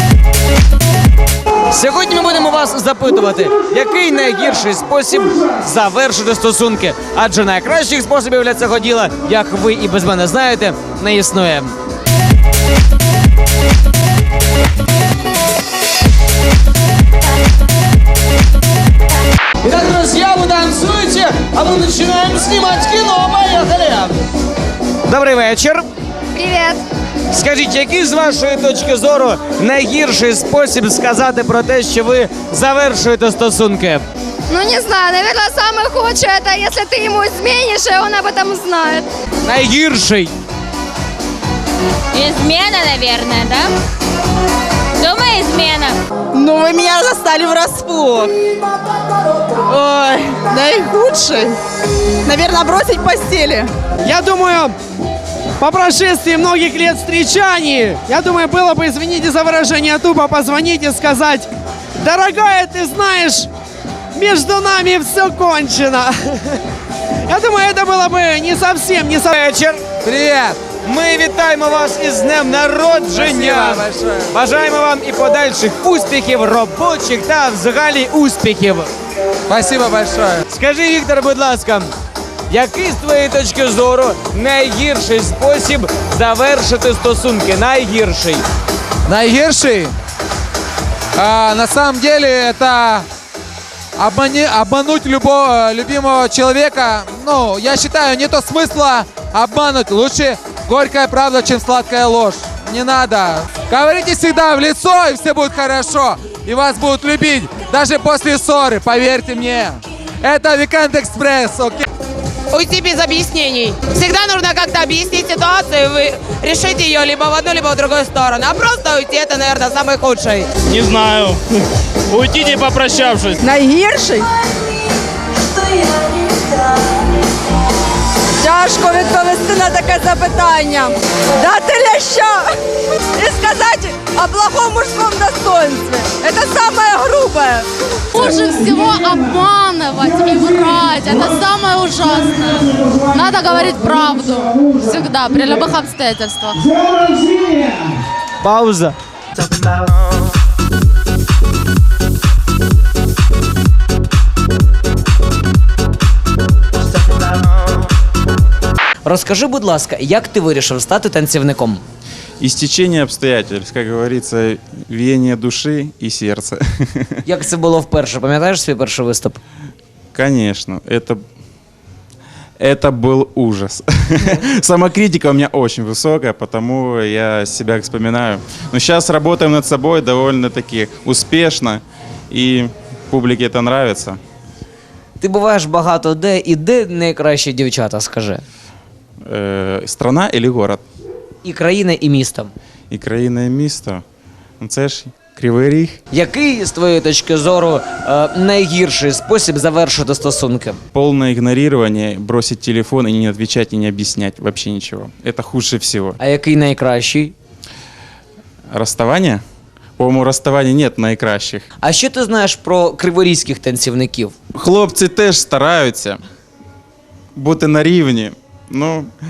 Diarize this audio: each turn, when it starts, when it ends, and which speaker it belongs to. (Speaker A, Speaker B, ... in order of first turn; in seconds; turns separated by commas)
Speaker A: 1.7-11.8, Speaker A: 19.6-24.1, Speaker A: 25.1-25.9, Speaker B: 26.4-26.8, Speaker A: 27.3-34.0, Speaker B: 34.5-39.1, Speaker A: 39.4-40.3, Speaker C: 42.1-43.7, Speaker C: 45.0-46.0, Speaker D: 46.3-48.3, Speaker D: 49.7-51.6, Speaker D: 52.3-53.7, Speaker E: 54.0-54.7, Speaker E: 55.6-61.5, Speaker E: 62.0-63.5, Speaker E: 64.2-66.4, Speaker E: 67.3-69.4, Speaker A: 69.3-69.8, Speaker F: 70.0-70.6, Speaker A: 70.8-78.9, Speaker F: 73.1-74.3, Speaker F: 79.5-80.4, Speaker A: 80.5-81.9, Speaker A: 82.5-88.4, Speaker F: 89.1-89.9, Speaker F: 91.2-93.1, Speaker F: 94.0-111.9, Speaker G: 112.5-120.5, Speaker H: 120.7-121.4, Speaker H: 122.1-123.3, Speaker D: 123.4-124.2, Speaker D: 128.4-132.5, Speaker D: 133.2-137.7, Speaker I: 138.1-146.6, Speaker A: 148.4-148.9, Speaker A: 159.1-161.8, Speaker J: 162.4-167.2, Speaker A: 167.3-169.4, Speaker J: 170.1-171.2, Speaker J: 172.6-184.2, Speaker A: 185.2-188.4, Speaker J: 189.3-190.8, Speaker A: 191.4-192.5, Speaker J: 192.9-194.0, Speaker J: 194.6-196.0, Speaker A: 196.1-200.8, Speaker J: 200.9-206.2, Speaker A: 206.2-207.3, Speaker J: 208.7-209.4, Speaker J: 210.0-211.7, Speaker A: 211.8-214.3, Speaker J: 214.6-216.2, Speaker J: 217.4-219.1